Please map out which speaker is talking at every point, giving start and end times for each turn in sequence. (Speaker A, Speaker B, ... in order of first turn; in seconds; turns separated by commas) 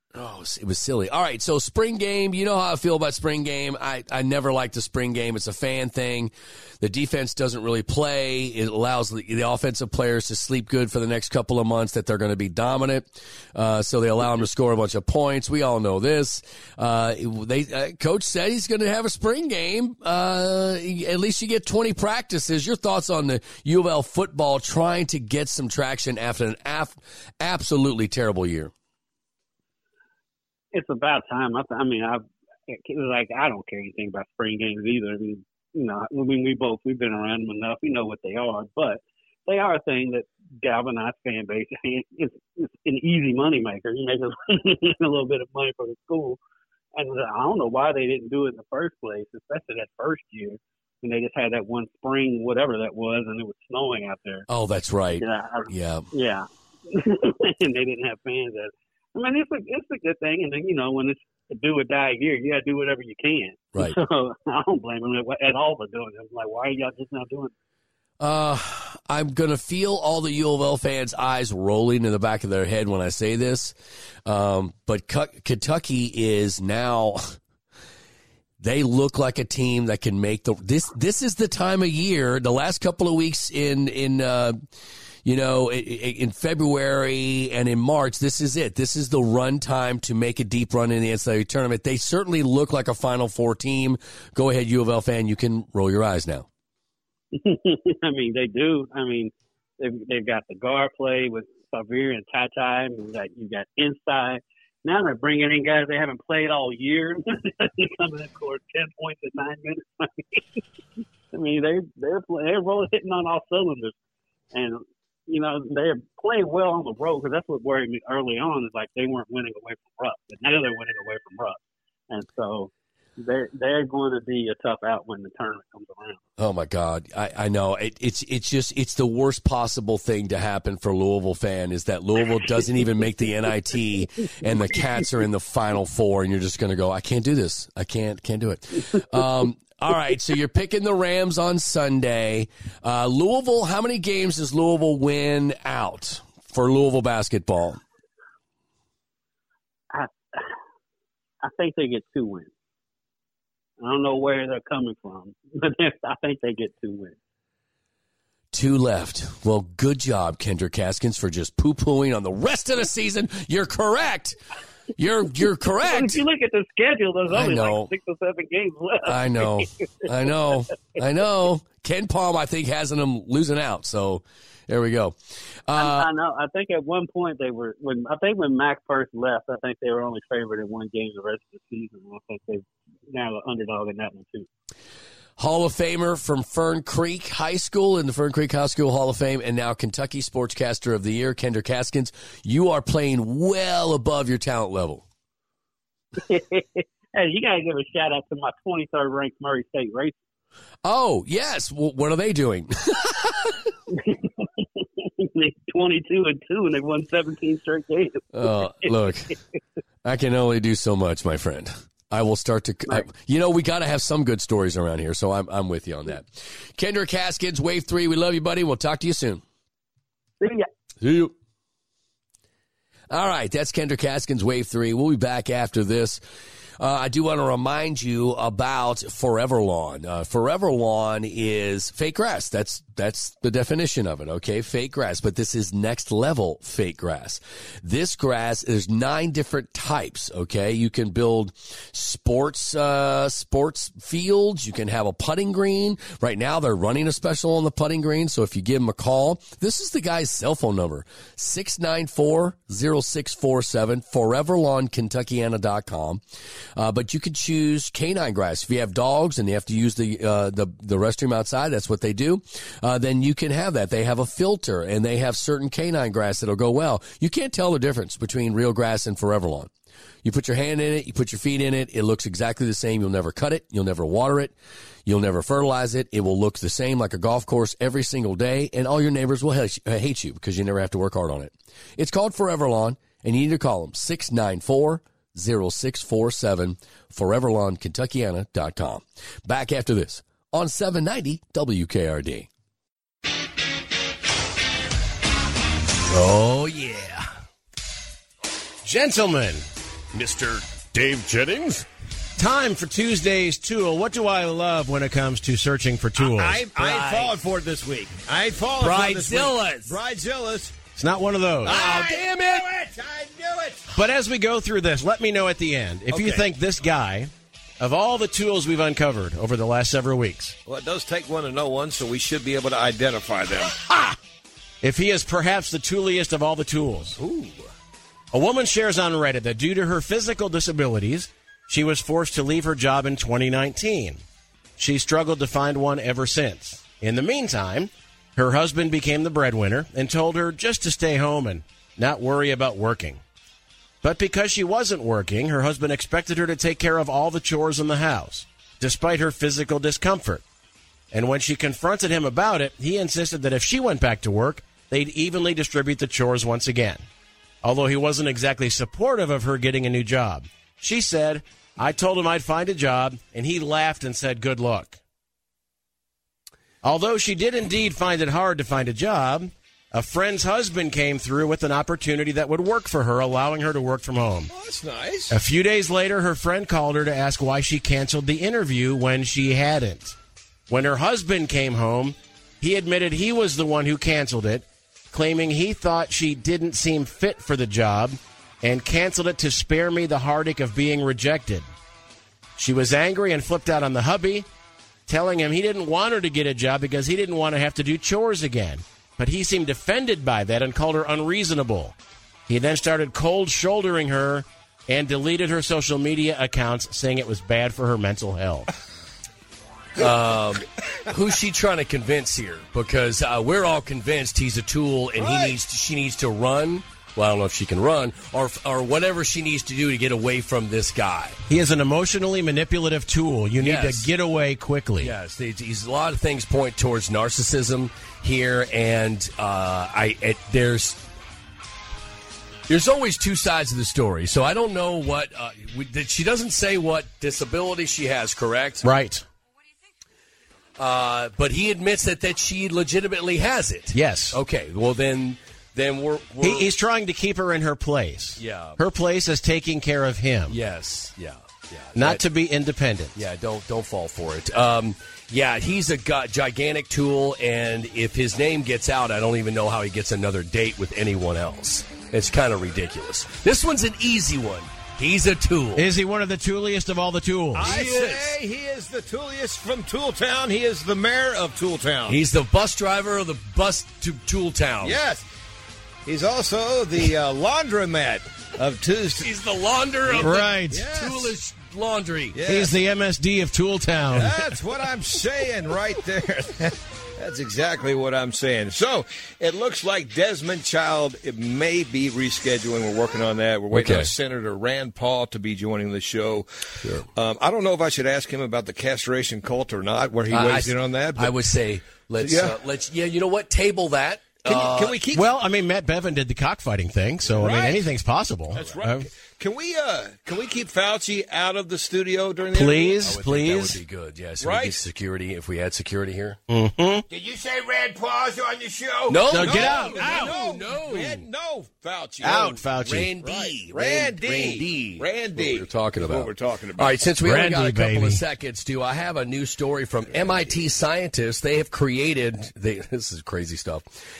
Speaker A: 0.1-28.7, Speaker B: 30.7-46.4, Speaker B: 46.9-54.5, Speaker A: 54.5-56.0, Speaker B: 55.2-67.5, Speaker A: 68.2-77.3, Speaker A: 78.6-84.6, Speaker A: 85.2-96.5, Speaker B: 97.3-110.4, Speaker B: 111.3-113.9, Speaker B: 114.5-121.6, Speaker B: 122.1-126.2, Speaker A: 126.4-147.8, Speaker B: 149.9-150.5, Speaker B: 151.4-152.5, Speaker B: 153.8-157.2, Speaker A: 158.5-164.3, Speaker A: 165.0-166.2, Speaker B: 165.8-169.7, Speaker A: 167.3-167.9, Speaker A: 169.0-175.1, Speaker A: 175.7-176.1, Speaker B: 175.8-184.5, Speaker A: 185.4-195.0, Speaker B: 196.2-200.2, Speaker A: 200.8-203.5, Speaker B: 203.9-208.9, Speaker A: 208.3-209.3, Speaker A: 210.0-219.4, Speaker B: 220.4-220.7, Speaker A: 221.0-221.3, Speaker A: 223.1-226.2, Speaker A: 226.8-256.2, Speaker A: 256.8-269.7, Speaker A: 270.2-274.5, Speaker A: 275.1-292.5, Speaker A: 296.1-297.3, Speaker C: 298.8-299.6, Speaker A: 300.1-301.9, Speaker C: 302.4-306.7, Speaker D: 306.2-310.9, Speaker A: 306.8-307.3, Speaker A: 308.8-310.0, Speaker C: 310.9-311.8, Speaker D: 311.6-313.9, Speaker A: 311.6-312.7, Speaker C: 313.9-320.6, Speaker D: 316.1-316.5, Speaker D: 320.6-324.1, Speaker C: 324.8-327.2, Speaker D: 327.2-327.7, Speaker C: 328.3-334.2, Speaker C: 334.8-343.2, Speaker C: 344.0-350.4, Speaker C: 351.1-357.0, Speaker C: 357.6-365.0, Speaker C: 366.8-374.5, Speaker D: 374.5-375.3, Speaker C: 375.3-380.1, Speaker C: 380.7-391.7, Speaker C: 392.6-394.5, Speaker C: 395.1-401.9, Speaker C: 402.5-408.7, Speaker A: 410.0-421.4, Speaker D: 415.2-415.6, Speaker C: 421.5-425.1, Speaker A: 423.6-424.1, Speaker A: 425.0-431.0, Speaker A: 432.7-438.9, Speaker C: 438.8-439.2, Speaker A: 440.8-446.7, Speaker C: 443.9-444.4, Speaker C: 446.4-450.6, Speaker A: 448.4-448.8, Speaker A: 450.5-452.2, Speaker C: 451.9-453.1, Speaker A: 453.1-465.9, Speaker C: 465.7-467.7, Speaker D: 467.5-472.2, Speaker A: 467.6-468.4, Speaker A: 472.0-475.0, Speaker D: 474.8-475.2, Speaker D: 476.1-479.3, Speaker A: 479.2-482.4, Speaker D: 480.1-481.3, Speaker C: 480.1-480.9, Speaker D: 482.3-482.7, Speaker C: 482.4-484.4, Speaker D: 484.1-496.5, Speaker A: 493.7-494.1, Speaker D: 497.1-501.3, Speaker A: 500.3-505.0, Speaker D: 502.2-502.6, Speaker D: 504.4-505.3, Speaker C: 505.1-509.1, Speaker D: 507.3-507.9, Speaker D: 508.5-513.0, Speaker C: 512.5-513.8, Speaker A: 513.0-516.4, Speaker D: 514.4-514.8, Speaker C: 516.5-517.1, Speaker D: 517.1-522.6, Speaker A: 519.1-521.2, Speaker C: 519.3-520.4, Speaker C: 522.2-523.1, Speaker A: 522.3-533.8, Speaker D: 523.2-527.0, Speaker C: 527.2-528.2, Speaker D: 530.1-530.5